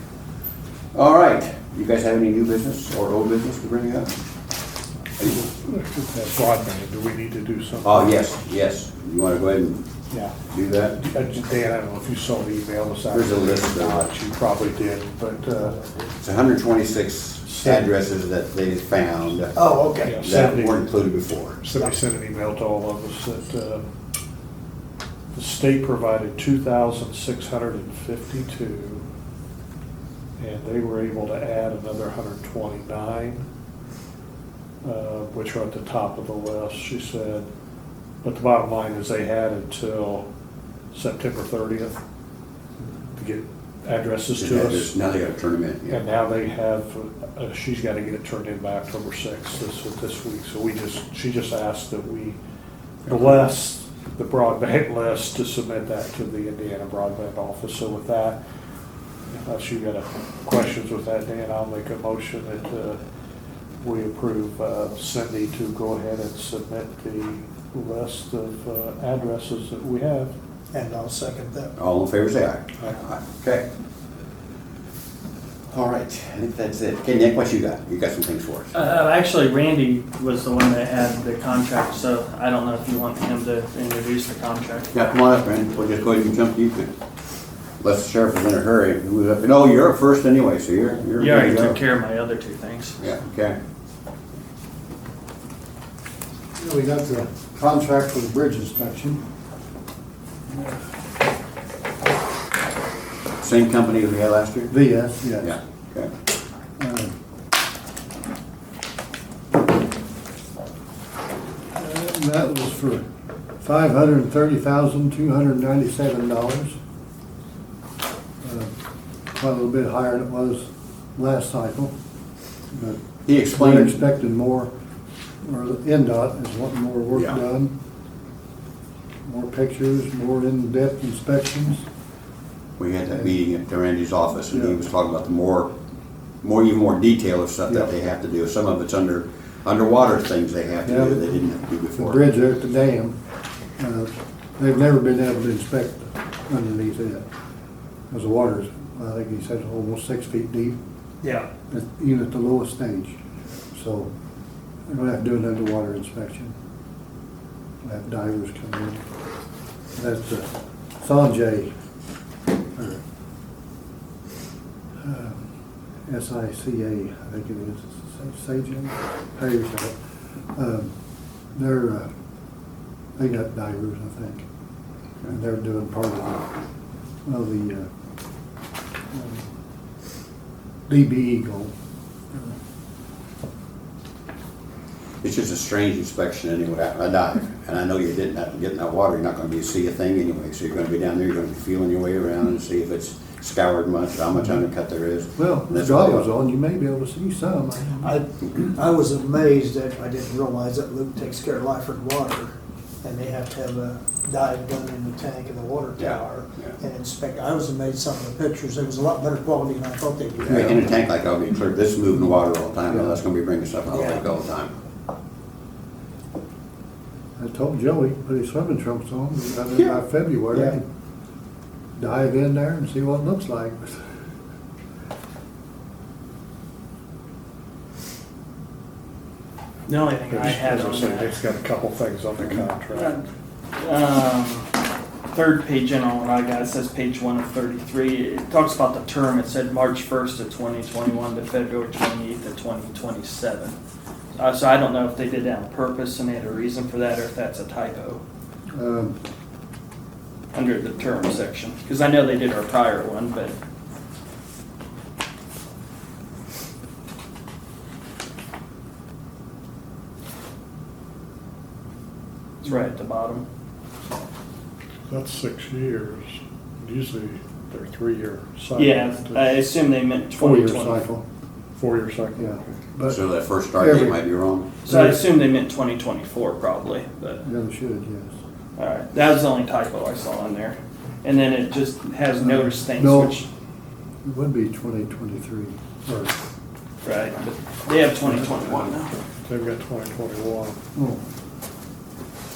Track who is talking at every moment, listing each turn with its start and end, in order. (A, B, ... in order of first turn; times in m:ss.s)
0:00.9-0:04.2 A
0:05.2-0:05.4 A
0:05.2-0:08.1 B
0:07.8-0:09.8 A
0:10.5-0:11.0 A
0:10.9-0:15.8 B
0:13.1-0:14.1 A
0:16.2-0:19.5 A
0:17.4-0:17.9 B
0:19.5-0:20.2 C
0:20.0-0:20.8 B
0:20.2-0:21.6 A
0:21.6-0:23.8 B
0:25.3-0:29.0 B
0:30.4-0:33.4 B
0:34.8-0:37.4 B
0:38.2-0:40.2 B
0:40.9-0:42.0 B
0:43.2-0:44.9 B
0:44.4-0:46.0 A
0:45.9-0:52.4 B
0:53.0-0:58.4 B
0:59.3-1:03.0 B
1:03.8-1:10.3 B
1:10.7-1:11.7 C
1:11.8-1:13.6 A
1:15.7-1:18.8 A
1:18.7-1:24.9 D
1:24.9-1:26.9 A
1:27.8-1:31.8 A
1:31.2-1:33.0 D
1:33.0-1:33.6 A
1:36.6-1:39.2 E
1:43.4-1:44.7 A
1:44.7-1:45.6 E
1:45.4-1:46.1 A
1:46.8-1:47.1 E
1:51.8-1:53.0 E
1:53.6-1:56.8 E
1:58.4-1:58.7 E
1:59.3-2:01.9 E
2:02.7-2:04.7 E
2:03.2-2:04.0 A
2:05.4-2:07.7 E
2:07.1-2:07.4 A
2:09.2-2:11.8 E
2:12.8-2:15.7 A
2:14.5-2:14.8 E
2:16.4-2:22.2 A
2:20.8-2:21.2 E
2:21.9-2:23.2 E
2:23.8-2:27.2 E
2:28.1-2:30.8 E
2:31.2-2:31.5 D
2:31.7-2:33.2 E
2:33.7-2:34.1 E
2:34.9-2:36.5 E
2:37.8-2:39.0 E
2:40.0-2:40.5 E
2:41.0-2:41.7 E
2:42.7-2:43.0 E
2:45.0-2:45.4 E
2:46.0-2:49.9 E
2:50.5-2:50.9 E
2:51.5-2:52.1 E
2:53.2-2:54.4 E
2:55.3-2:56.5 E
2:57.2-2:57.9 E
2:59.1-2:59.5 E
3:00.9-3:01.7 E
3:05.2-3:16.2 A
3:15.4-3:18.2 E
3:18.0-3:30.9 C
3:26.0-3:26.7 A
3:30.4-3:34.7 A
3:32.9-3:33.2 E
3:33.9-3:34.2 C
3:37.4-3:40.8 E
3:42.0-3:44.0 E
3:49.9-3:51.3 D
3:50.3-3:53.2 B
3:52.9-3:54.7 D
3:55.3-4:03.8 D
4:04.4-4:08.2 D
4:08.7-4:09.2 E
4:10.5-4:13.5 D
4:22.6-4:23.4 D
4:25.1-4:29.5 B
4:28.8-4:31.0 D
4:30.4-4:31.2 E
4:31.8-4:32.7 B
4:32.4-4:34.2 E
4:33.1-4:34.7 A
4:34.8-4:37.4 D
4:34.8-4:35.2 E
4:37.4-4:38.3 E
4:38.8-4:43.5 D
4:42.4-4:43.4 E
4:44.2-4:46.4 E
4:47.0-4:49.1 D
4:49.4-4:50.8 B
4:50.9-4:51.2 E